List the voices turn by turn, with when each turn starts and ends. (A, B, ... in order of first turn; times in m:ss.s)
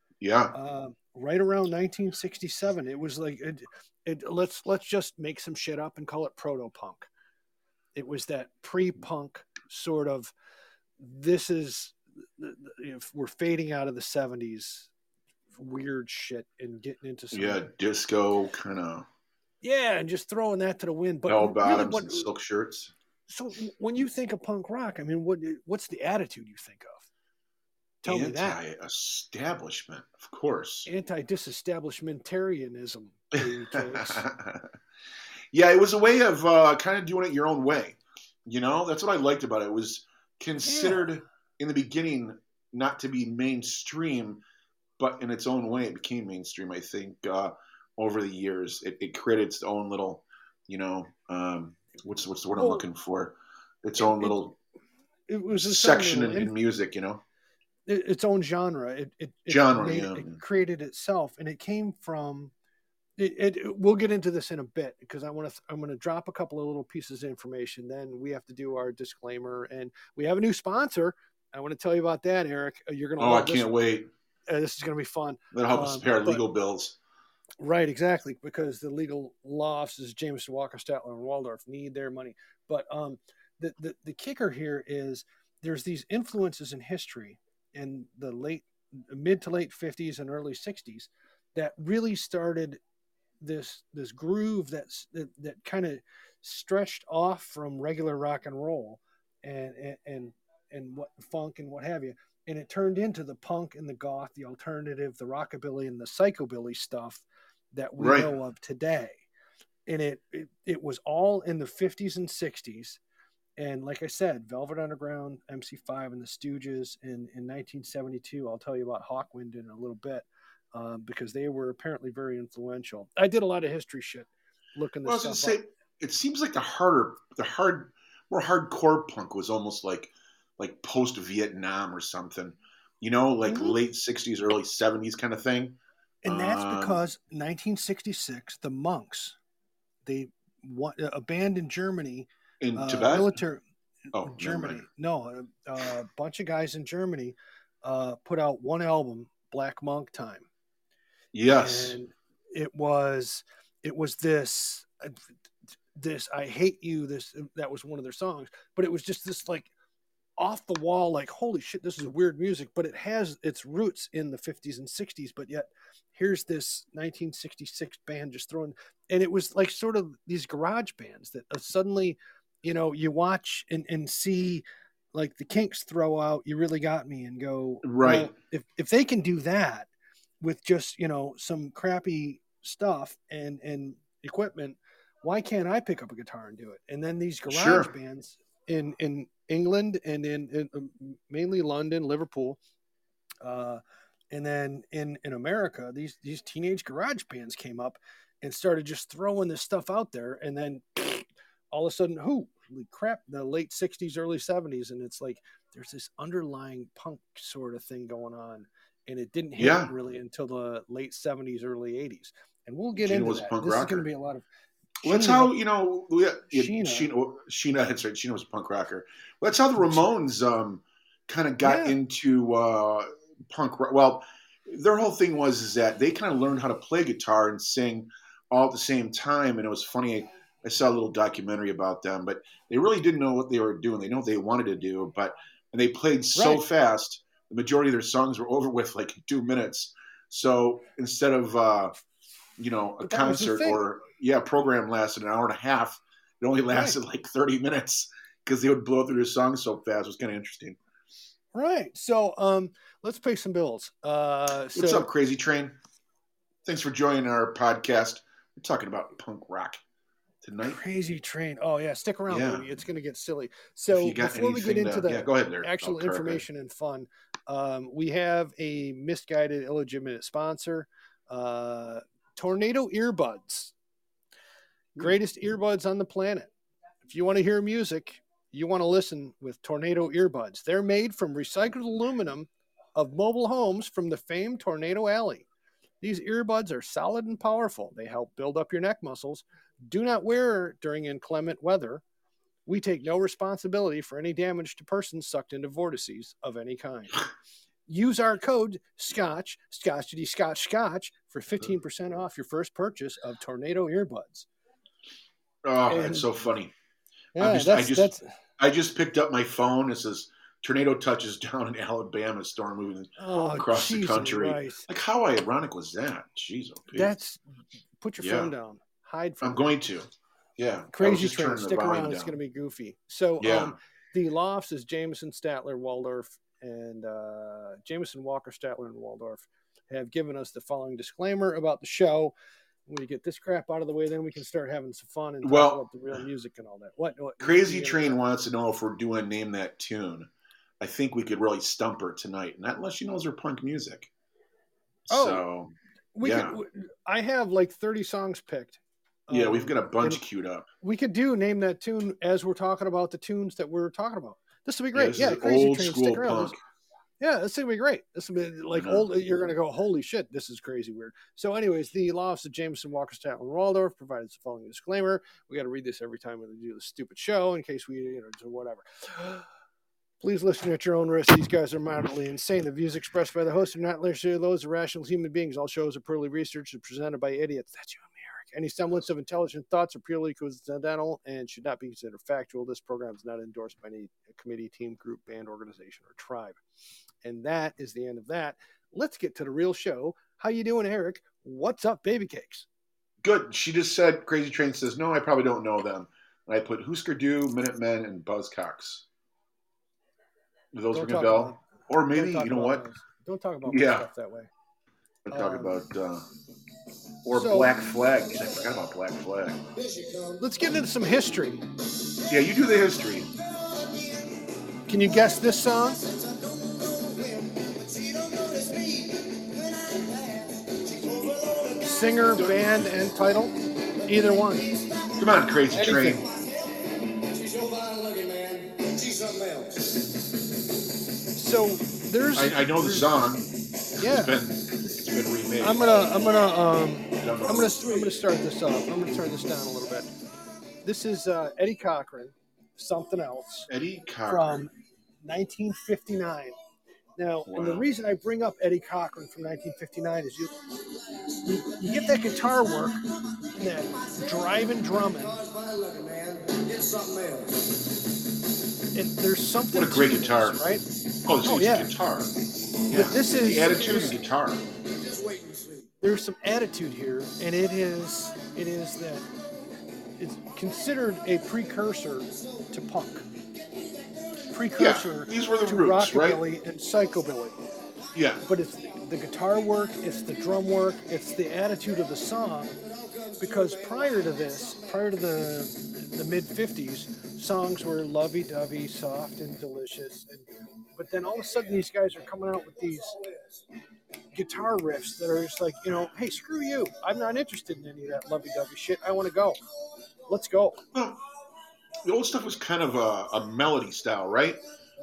0:00.2-0:00.5 A
0:00.5-0:07.1 B
0:07.9-0:10.3 B
0:11.0-0:14.9 B
0:15.5-0:17.6 B
0:17.3-0:19.1 A
0:19.6-0:22.3 B
0:21.3-0:22.9 A
0:23.3-0:27.1 B
0:28.0-0:28.6 B
0:28.0-0:30.9 A
0:30.8-0:34.2 B
0:33.7-0:34.7 A
0:35.5-0:44.4 A
0:40.6-0:41.1 B
0:45.0-0:54.6 A
0:52.6-0:52.8 B
0:54.0-0:54.4 B
0:55.3-0:56.5 B
0:55.6-0:57.2 A
0:57.8-1:02.5 B
0:59.5-1:00.4 A
1:03.2-1:13.7 B
1:13.2-1:14.1 A
1:14.5-1:16.4 B
1:15.5-1:17.0 A
1:17.6-1:32.8 B
1:33.4-1:49.2 B
1:48.0-1:48.3 A
1:49.9-1:53.0 B
1:53.6-2:05.6 B
2:05.0-2:17.0 A
2:13.4-2:13.8 B
2:16.2-2:19.4 B
2:20.0-2:23.6 B
2:22.6-2:23.4 A
2:24.1-2:30.5 B
2:24.1-2:24.8 A
2:31.3-2:32.0 A
2:31.5-2:35.2 B
2:35.9-2:39.7 B
2:40.4-2:59.9 B
2:57.8-2:58.3 A
3:00.4-3:12.6 B
3:07.5-3:07.9 A
3:13.4-3:13.8 B
3:14.3-3:34.4 B
3:29.6-3:29.9 A
3:32.9-3:34.1 A
3:35.0-3:35.5 B
3:35.0-4:02.0 A
3:36.5-3:37.1 B
3:41.6-3:42.0 B
3:56.3-3:56.6 B
4:02.6-4:10.8 A
4:03.0-4:03.8 B
4:11.5-4:15.1 B
4:14.7-4:15.8 A
4:16.6-4:19.8 A
4:20.4-4:20.8 A
4:20.6-4:33.7 B
4:22.3-4:22.6 A
4:23.9-4:26.4 A
4:35.0-4:36.5 B
4:37.0-4:45.4 B
4:46.0-4:52.0 B
4:52.6-4:57.2 B
4:57.9-5:04.5 B
5:05.6-5:06.7 A
5:05.9-5:06.2 B
5:07.3-5:08.3 B
5:07.4-5:17.1 A
5:13.2-5:14.8 B
5:16.9-5:17.4 B
5:18.0-5:19.7 B
5:18.2-5:18.5 A
5:19.4-5:22.3 A
5:20.9-5:32.3 B
5:23.4-5:23.7 A
5:32.8-5:38.2 B
5:35.4-5:35.8 A
5:37.4-5:44.1 A
5:45.1-5:46.6 A
5:45.1-5:45.4 B
5:46.1-5:50.2 B
5:49.3-5:50.7 A
5:50.8-5:56.5 B
5:54.9-5:56.6 A
5:57.2-6:09.4 B
5:58.7-5:59.1 A
6:10.2-6:26.6 B
6:27.2-6:32.6 B
6:33.2-6:39.0 A
6:40.7-6:42.8 A
6:40.9-6:44.5 B
6:43.6-6:44.1 A
6:45.2-6:46.2 A
6:45.3-6:45.8 B
6:47.2-6:49.6 A
6:47.3-6:47.7 B
6:50.2-6:51.6 B
6:52.3-6:53.3 A
6:54.9-6:56.1 B
6:58.2-6:59.0 C
7:00.7-7:01.7 C
7:01.8-7:04.8 B
7:05.1-7:06.3 A
7:05.7-7:06.2 B
7:07.4-7:09.7 C
7:11.3-7:13.1 B
7:12.3-7:15.9 A
7:14.0-7:14.3 B
7:15.6-7:20.1 B
7:17.2-7:17.8 A
7:20.8-7:23.7 B
7:23.7-7:24.7 A
7:24.3-7:24.7 B
7:25.2-7:26.6 B
7:27.2-7:30.5 B
7:27.5-7:27.9 A
7:31.4-7:33.0 B
7:33.5-7:35.4 B
7:35.7-7:37.5 C
7:38.9-7:40.8 B
7:39.7-7:42.3 A
7:41.4-7:41.9 B
7:42.9-7:44.2 B
7:42.9-7:44.6 A
7:45.1-7:45.8 C
7:46.0-7:49.3 B
7:50.2-7:53.2 B
7:54.4-7:57.6 B
7:54.8-7:56.4 A
7:58.1-7:58.4 A
7:58.4-8:02.8 B
8:03.4-8:13.2 B
8:14.3-8:19.6 B
8:20.2-8:20.8 B
8:20.9-8:21.2 A
8:22.0-8:24.6 A